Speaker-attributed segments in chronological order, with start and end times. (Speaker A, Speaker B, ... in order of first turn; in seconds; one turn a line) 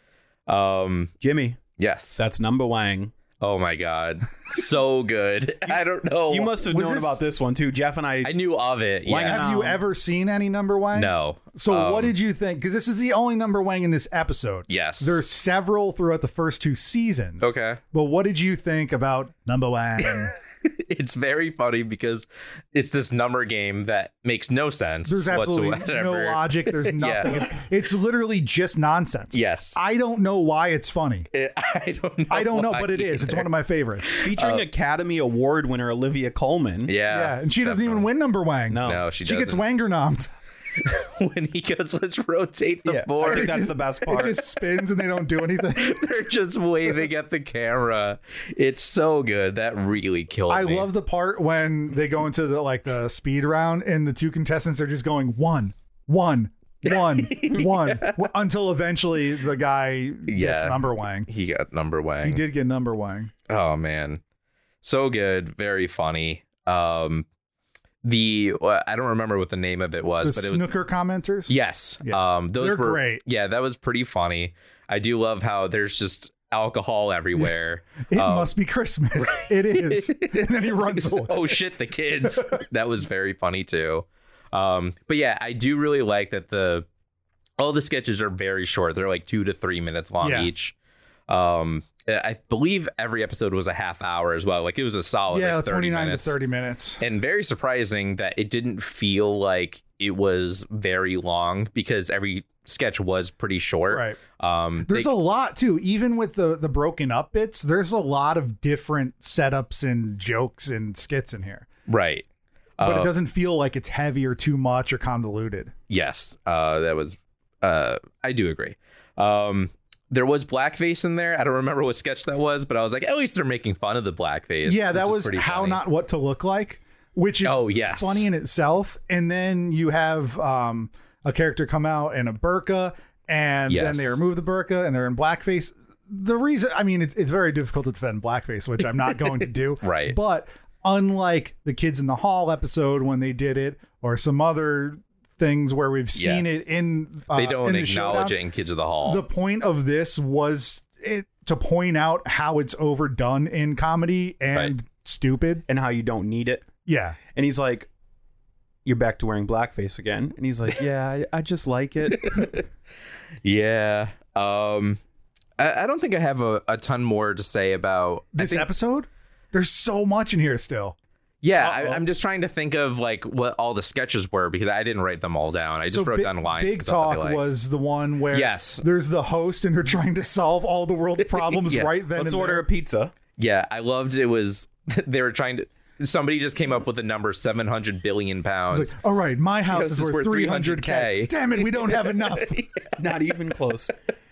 Speaker A: 0.5-1.1
Speaker B: 1.2-1.6
Speaker A: 1.8-2.2
Speaker B: 2.2-3.1
Speaker A: 3.4-6.6
Speaker B: 5.7-8.3
Speaker C: 6.7-7.2
Speaker A: 8.2-9.5
Speaker B: 9.1-9.8
Speaker C: 9.2-20.3
Speaker A: 10.9-12.2
Speaker A: 14.7-15.2
Speaker A: 17.4-17.8
Speaker A: 20.6-27.5
Speaker C: 25.1-31.3
Speaker A: 29.3-29.8
Speaker A: 31.3-33.5
Speaker C: 32.3-34.2
Speaker A: 34.1-34.6
Speaker B: 34.2-36.9
Speaker A: 36.9-38.1
Speaker C: 37.1-40.3
Speaker B: 38.7-39.0
Speaker A: 38.8-39.6
Speaker A: 40.8-43.7
Speaker B: 42.9-44.4
Speaker C: 43.3-46.0
Speaker A: 45.4-50.9
Speaker C: 50.5-61.3
Speaker A: 57.0-58.2
Speaker A: 60.3-62.4
Speaker C: 62.2-63.3
Speaker A: 63.5-64.2
Speaker A: 64.8-67.3
Speaker A: 68.0-70.7
Speaker C: 70.2-73.2
Speaker A: 71.5-78.5
Speaker C: 78.1-81.6
Speaker A: 79.2-86.9
Speaker A: 87.6-90.8
Speaker C: 90.2-90.5
Speaker A: 91.3-96.4
Speaker C: 95.3-97.0
Speaker A: 97.0-105.1
Speaker C: 103.9-104.2
Speaker C: 104.8-111.7
Speaker A: 111.9-112.3
Speaker A: 112.8-113.1
Speaker C: 112.8-115.7
Speaker A: 115.9-125.8
Speaker C: 124.7-148.4
Speaker A: 127.4-128.3
Speaker A: 133.7-134.2
Speaker A: 139.8-140.2
Speaker A: 146.2-146.5
Speaker A: 147.3-149.2
Speaker C: 149.0-155.7
Speaker B: 155.7-156.7
Speaker C: 156.9-157.2
Speaker B: 157.3-157.9
Speaker B: 158.8-162.6
Speaker A: 162.2-162.6
Speaker A: 163.4-165.0
Speaker A: 165.6-168.7
Speaker C: 168.3-171.0
Speaker A: 171.4-177.5
Speaker B: 171.6-172.0
Speaker C: 175.9-182.7
Speaker A: 178.3-178.8
Speaker A: 181.4-181.9
Speaker B: 182.2-183.1
Speaker A: 183.4-189.0
Speaker C: 188.7-192.7
Speaker A: 189.7-193.3
Speaker B: 193.0-193.9